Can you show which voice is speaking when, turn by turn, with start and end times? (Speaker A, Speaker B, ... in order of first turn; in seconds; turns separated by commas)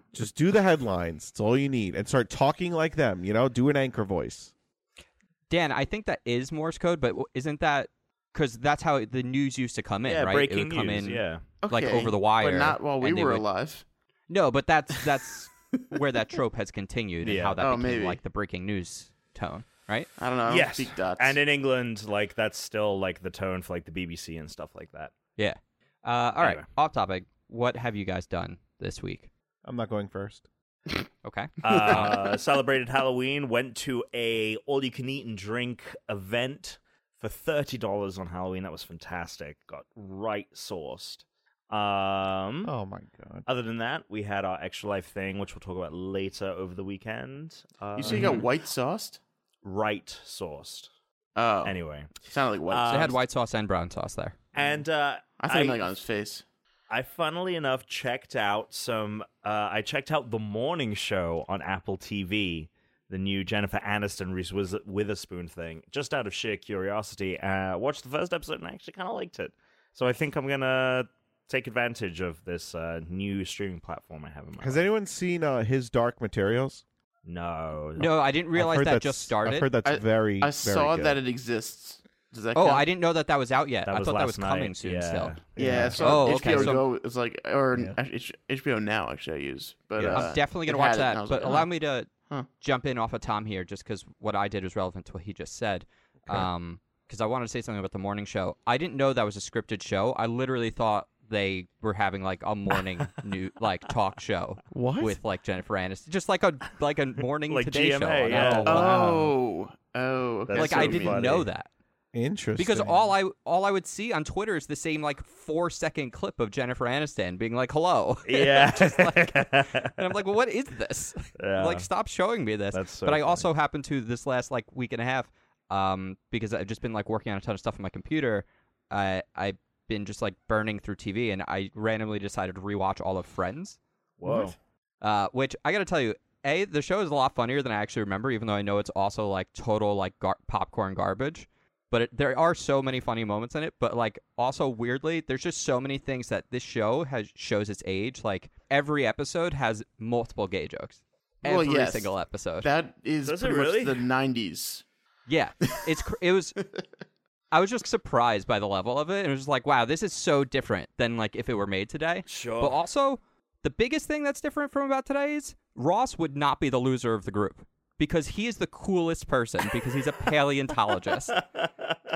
Speaker A: 0.1-4.5, Speaker B: 5.5-13.4, Speaker C: 10.1-11.4, Speaker D: 11.6-13.8, Speaker B: 14.3-20.1, Speaker C: 17.2-17.6, Speaker D: 17.6-18.2, Speaker D: 20.2-21.4, Speaker C: 20.5-25.1, Speaker B: 25.4-29.3, Speaker A: 29.6-30.5, Speaker B: 31.2-32.1, Speaker C: 31.6-42.7, Speaker A: 42.6-43.5, Speaker C: 43.5-48.5, Speaker D: 48.0-49.2, Speaker A: 48.0-48.4, Speaker C: 49.6-50.9, Speaker D: 51.4-53.2, Speaker C: 51.6-53.1, Speaker B: 52.9-54.4, Speaker C: 54.5-55.9, Speaker D: 55.4-56.4, Speaker C: 56.9-74.8, Speaker A: 74.6-76.8, Speaker C: 77.2-78.1, Speaker B: 78.0-79.7, Speaker A: 78.5-81.2, Speaker D: 79.8-82.9, Speaker B: 82.5-85.4, Speaker C: 83.9-85.5, Speaker A: 85.6-86.7, Speaker D: 85.6-91.7, Speaker B: 86.0-86.8, Speaker A: 90.0-90.3, Speaker B: 90.1-109.2, Speaker A: 104.7-105.2, Speaker C: 107.5-109.0, Speaker A: 108.5-109.3, Speaker D: 108.7-111.3, Speaker C: 110.5-111.5, Speaker B: 110.5-111.7, Speaker A: 112.1-112.9, Speaker B: 112.6-133.8, Speaker C: 118.3-120.0, Speaker C: 121.4-121.9, Speaker C: 122.7-123.5, Speaker C: 134.2-134.6, Speaker A: 134.2-134.5, Speaker B: 135.0-152.7, Speaker D: 151.4-154.8, Speaker C: 153.2-154.1, Speaker B: 155.3-156.6, Speaker B: 157.5-171.3, Speaker C: 162.3-162.8, Speaker C: 171.3-172.0